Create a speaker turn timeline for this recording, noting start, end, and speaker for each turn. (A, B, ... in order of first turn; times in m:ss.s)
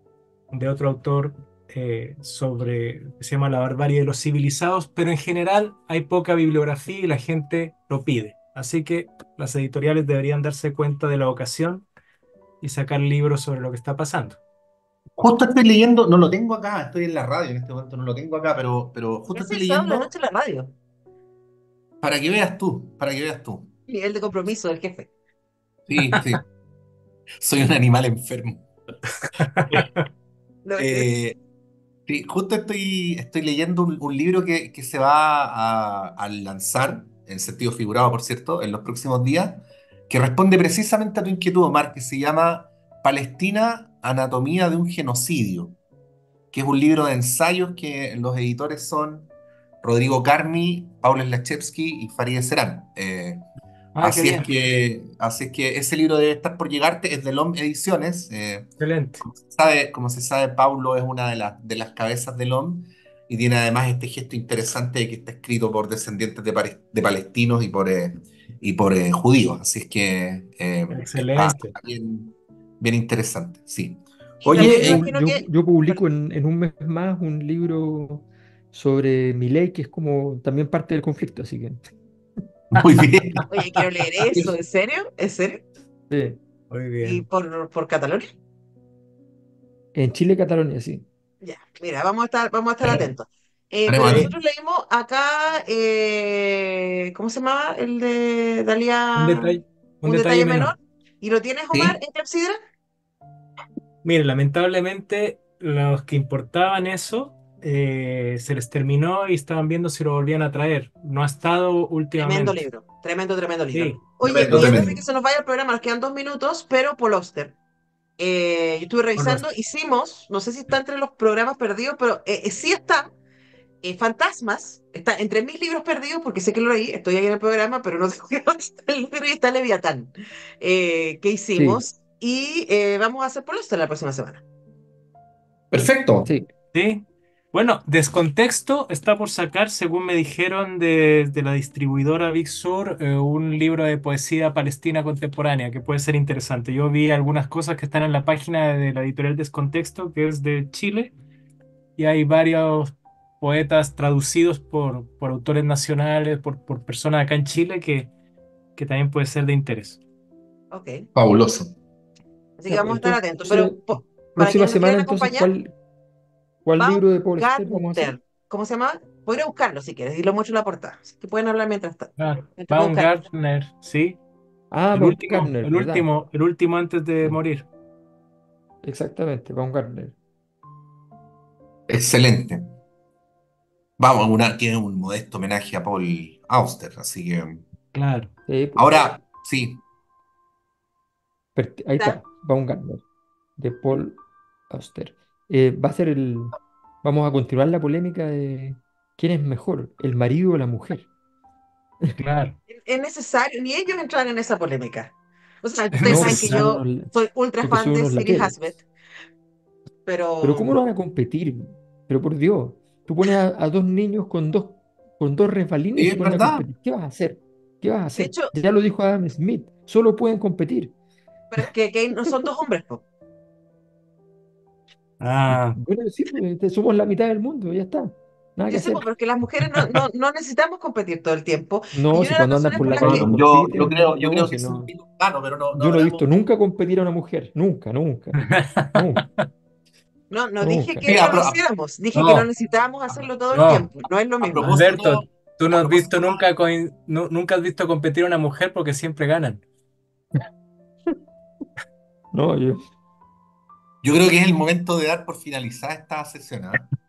0:00.5-0:11.9 A
0:12.6-0:14.4 A
0:15.2-0:20.1 B
0:19.4-0:20.7 C
0:22.0-0:23.7 B
0:23.9-0:25.1 C
0:25.9-0:26.4 B
0:27.4-0:28.6 B
0:29.5-0:30.0 A
0:29.6-0:29.9 B
0:30.6-0:31.1 C
0:30.8-0:31.4 B
0:32.1-0:45.8 B
0:46.5-0:49.3 B
0:49.8-0:53.4 B
0:54.0-0:54.5 A
0:54.0-0:58.7 B
0:58.8-0:59.2 A
0:59.2-1:15.0 B
1:10.9-1:11.7 A
1:14.4-1:15.4 C
1:14.5-1:21.8 D
1:22.7-1:23.4 B
1:23.5-1:25.6 C
1:24.2-1:24.5 B
1:26.1-1:26.4 D
1:26.7-1:27.2 A
1:27.0-1:28.3 C
1:29.9-1:31.0 D
1:31.4-1:42.6 C
1:33.9-1:34.3 B
1:34.0-1:34.3 A
1:39.2-1:40.7 A
1:41.7-1:42.0 B
1:44.0-1:52.6 A
1:52.2-1:57.6 C
1:53.7-1:54.8 A
1:54.2-1:55.0 B
1:58.2-2:03.1 C
1:59.2-1:59.4 A
2:03.8-2:14.4 C
2:11.5-2:11.8 D
2:15.7-2:16.3 B
2:16.7-2:31.1 A
2:32.0-2:38.1 A
2:38.8-2:40.0 A
2:40.7-2:41.1 C
2:41.1-2:41.7 B
2:42.6-2:45.5 C
2:42.7-2:45.7 D
2:46.6-2:48.1 D
2:46.8-2:53.1 C
2:52.2-2:54.2 A
2:54.7-2:56.1 D
2:54.9-2:57.6 A
2:58.8-3:00.2 D
3:01.9-3:02.7 B
3:04.0-3:07.6 B
3:07.9-3:08.3 A
3:08.5-3:09.1 D
3:08.8-3:09.8 B
3:11.5-3:13.0 D
3:13.6-3:14.2 D
3:14.7-3:21.1 D
3:22.2-3:22.6 A
3:22.7-3:28.8 C
3:26.0-3:26.6 A
3:26.0-3:27.1 D
3:27.6-3:28.5 D
3:30.0-3:30.8 C
3:30.4-3:40.9 D
3:36.0-3:36.6 B
3:38.2-3:38.5 C
3:41.5-3:43.0 C
3:45.2-3:45.8 A
3:45.5-3:49.0 D
3:48.7-3:53.3 C
3:51.9-3:54.9 D
3:52.8-3:56.3 B
3:55.7-3:58.4 D
3:58.4-3:59.4 A
3:58.9-3:59.2 D
4:00.3-4:04.7 C
4:00.6-4:01.1 D
4:01.0-4:01.6 B
4:02.1-4:02.5 B
4:03.5-4:03.8 A
4:04.4-4:06.4 B
4:04.6-4:09.6 A
4:12.3-4:12.8 D
4:14.0-4:16.8 B